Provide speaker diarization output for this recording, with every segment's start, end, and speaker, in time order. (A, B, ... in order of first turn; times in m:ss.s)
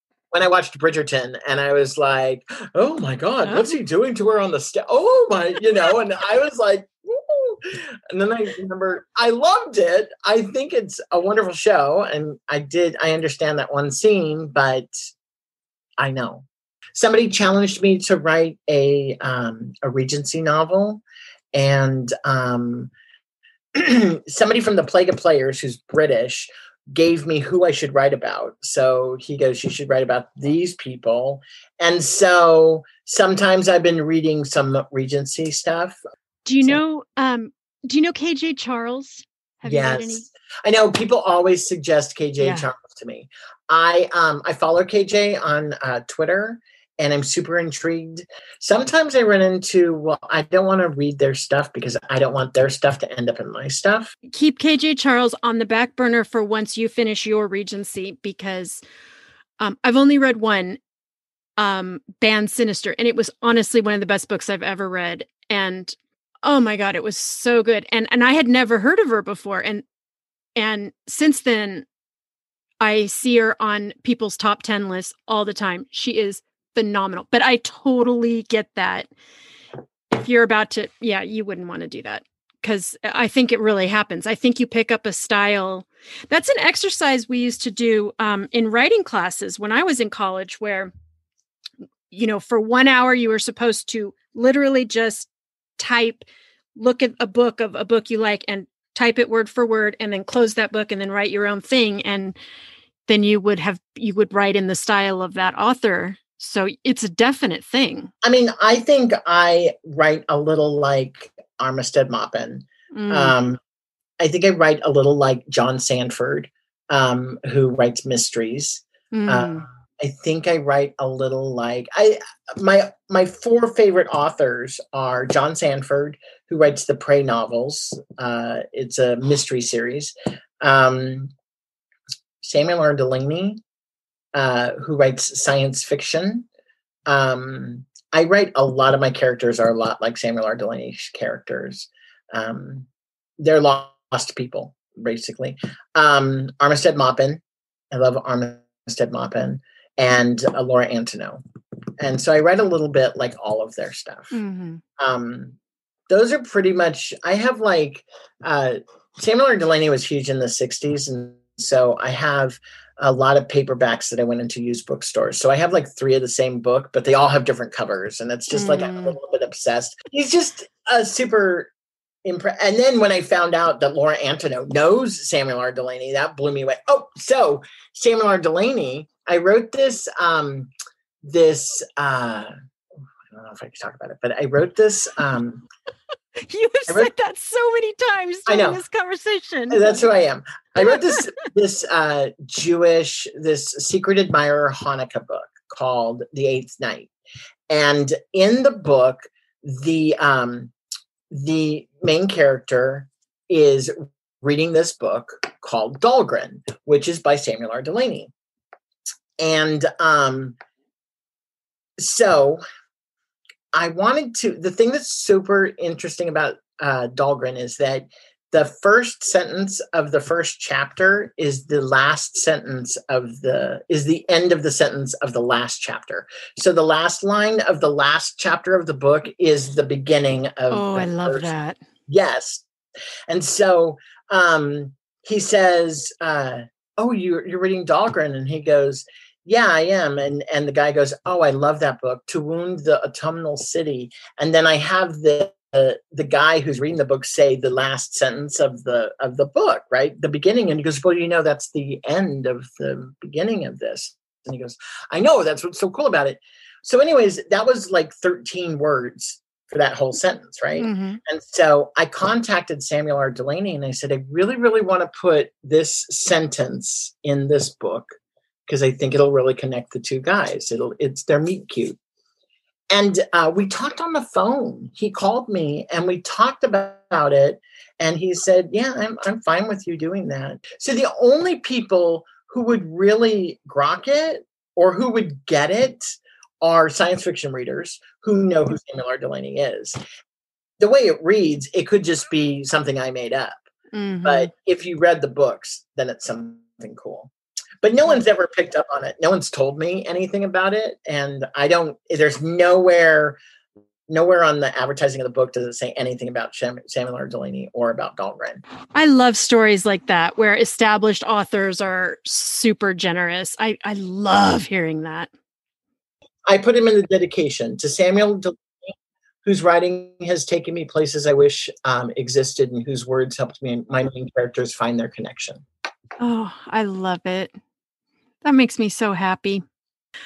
0:00.3-0:14.9 A
0:03.4-0:03.7 B
0:16.0-0:21.0 A
0:21.5-0:22.9 A
0:23.7-0:36.0 A
0:36.4-0:40.2 B
0:39.6-0:54.1 A
0:42.4-0:42.7 B
0:54.3-0:58.8 B
0:59.6-1:00.8 B
1:01.6-1:09.8 B
1:10.6-1:11.8 B
1:12.8-1:19.1 B
1:20.1-1:30.9 B
1:32.1-1:42.4 B
1:43.1-1:48.1 B
1:48.2-1:53.6 A
1:52.9-1:53.3 B
1:54.2-2:11.3 A
1:59.1-1:59.6 B
2:12.4-2:13.6 A
2:14.3-2:16.5 A
2:17.1-2:22.9 A
2:23.4-2:31.4 A
2:32.0-2:34.4 A
2:34.3-2:34.8 B
2:35.0-2:35.5 A
2:36.1-2:51.7 A
2:48.5-2:49.2 B
2:52.2-3:00.7 A
3:01.2-3:02.5 A
3:03.3-3:05.6 A
3:06.4-3:10.0 B
3:08.5-3:08.8 A
3:09.7-3:17.1 A
3:10.9-3:11.2 B
3:17.7-3:20.7 A
3:21.3-3:28.3 A
3:29.4-3:30.5 A
3:32.0-3:32.6 A
3:33.7-3:51.5 A
3:50.7-3:51.8 B
3:52.1-3:52.6 A
3:53.3-4:28.1 A
4:20.8-4:21.2 B
4:28.7-4:32.0 A
4:32.9-4:50.0 A
4:50.8-4:53.6 A
4:53.9-4:54.5 B
4:54.2-5:03.4 A
5:04.1-5:08.6 A
5:08.9-5:15.3 B
5:16.5-5:18.6 A
5:19.4-5:25.6 A
5:26.2-5:27.6 B
5:28.4-5:29.6 B